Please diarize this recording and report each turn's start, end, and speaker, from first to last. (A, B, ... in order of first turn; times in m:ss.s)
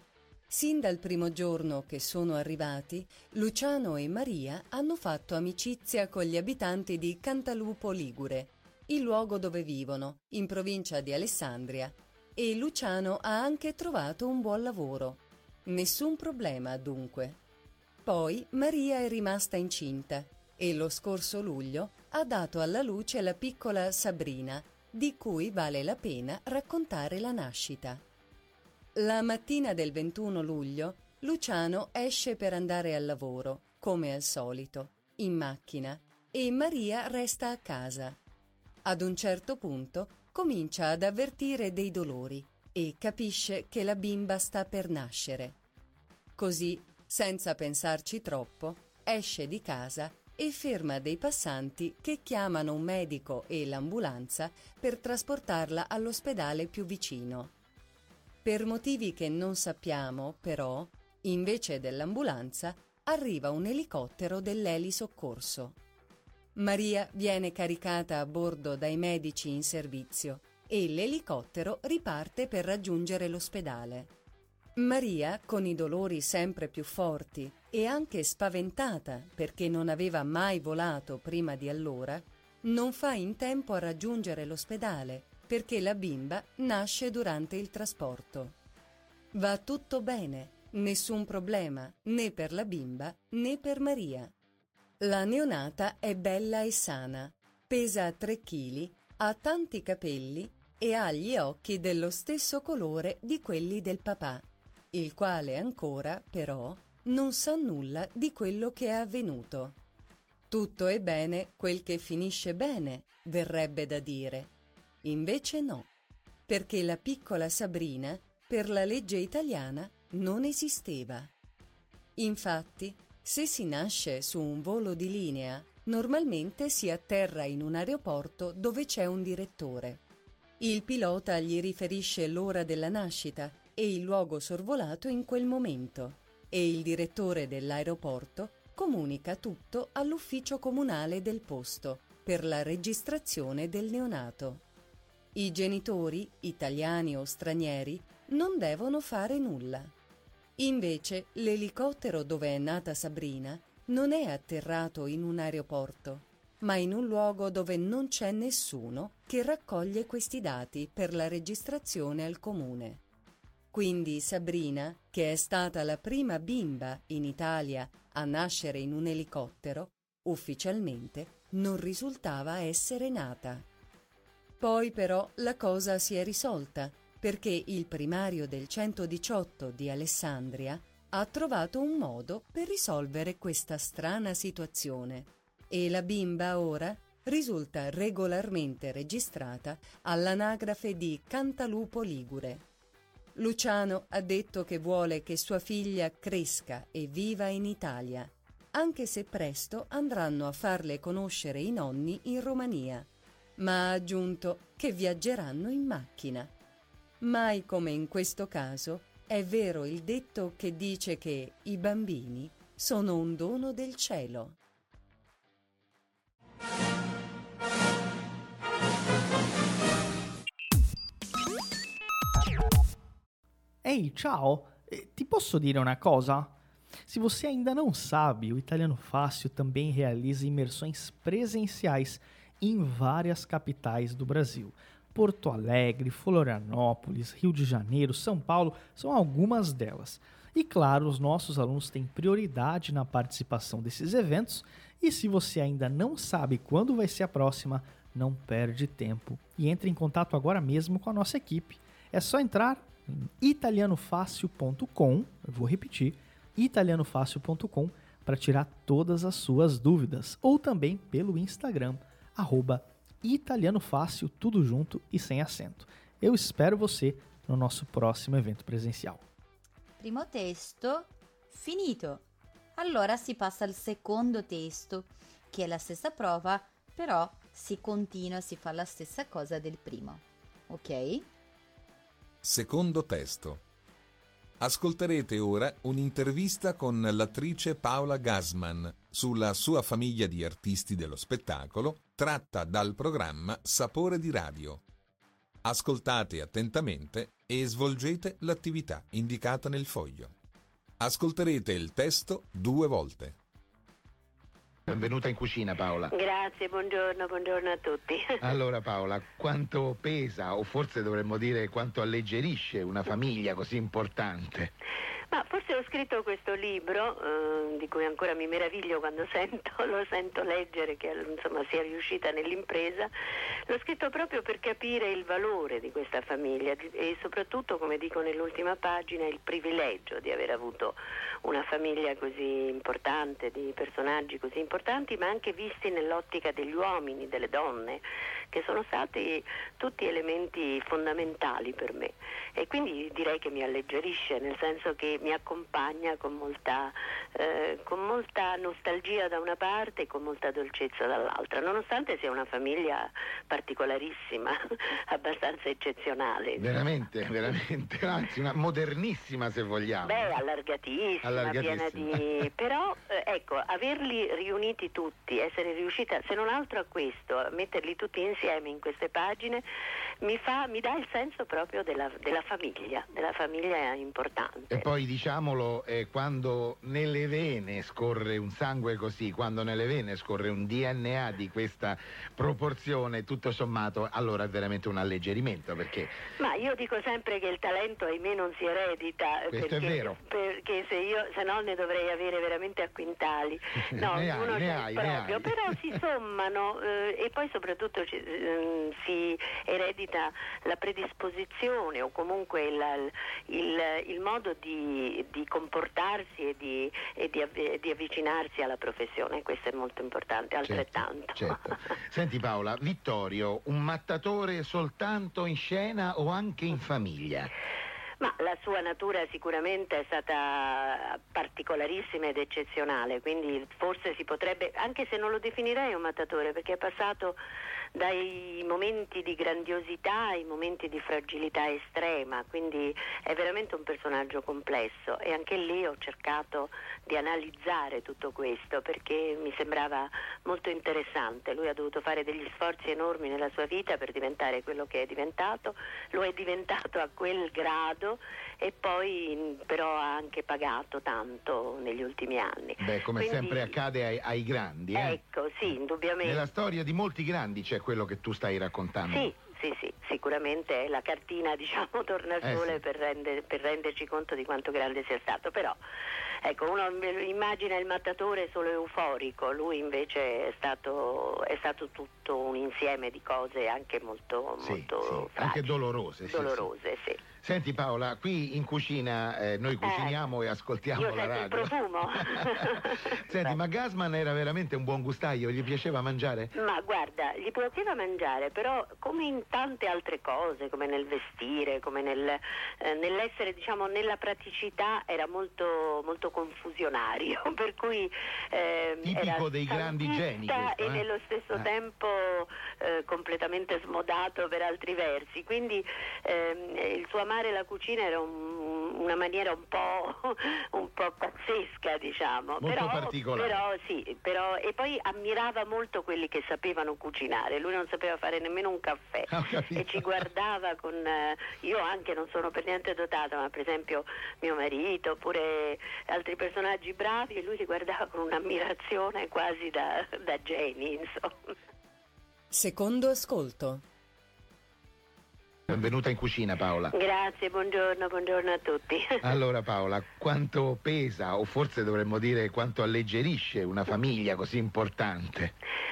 0:00.5-0:17.4 A
0:18.0-0:28.0 A
0:29.0-0:38.2 A
0:38.8-0:45.6 A
0:46.4-0:57.5 A
0:58.4-1:05.8 A
1:06.6-1:14.1 A
1:14.8-1:28.6 A
1:29.3-1:34.3 A
1:35.0-1:49.8 A
1:50.5-1:54.5 A
1:55.0-1:55.9 A
1:56.5-2:01.3 A
2:02.2-2:10.0 A
2:10.6-2:24.6 A
2:25.3-2:29.9 A
2:30.6-2:43.0 A
2:43.7-2:53.6 A
2:54.6-3:12.6 A
3:13.3-3:26.5 A
3:27.2-3:34.6 A
3:43.8-4:29.2 B
4:30.0-4:32.2 C
4:32.8-4:41.2 C
4:42.4-4:43.6 D
4:44.6-4:54.8 D
4:55.6-5:00.3 D
5:01.0-5:03.4 D
5:04.8-5:06.1 E
5:06.1-5:08.4 F
5:08.4-5:14.7 E
5:15.3-5:23.1 F
5:23.7-5:54.6 F
5:55.1-5:56.7 F
5:56.6-6:00.3 E
6:00.0-6:09.6 F
6:01.2-6:02.2 E
6:10.2-6:14.8 F
6:14.7-6:26.1 E
6:26.4-6:51.7 F
6:29.5-6:30.2 E
6:34.0-6:35.7 E
6:50.6-6:57.5 E
6:58.2-7:07.4 F
7:08.0-7:33.8 F
7:32.8-7:39.3 E
7:34.9-7:36.5 F
7:39.1-7:45.8 F
7:42.4-7:42.8 E
7:46.4-7:55.7 F
7:54.6-7:56.7 E
7:56.2-7:57.2 F
7:57.4-8:01.7 E
7:59.8-8:00.2 F
8:01.0-8:03.6 F
8:03.2-8:06.5 E
8:06.5-8:51.3 F
8:19.0-8:21.7 E
8:32.6-8:33.6 E
8:39.3-8:40.0 E
8:52.5-8:53.8 A
8:55.7-8:56.9 E
8:56.9-8:59.2 F
8:59.2-9:05.5 E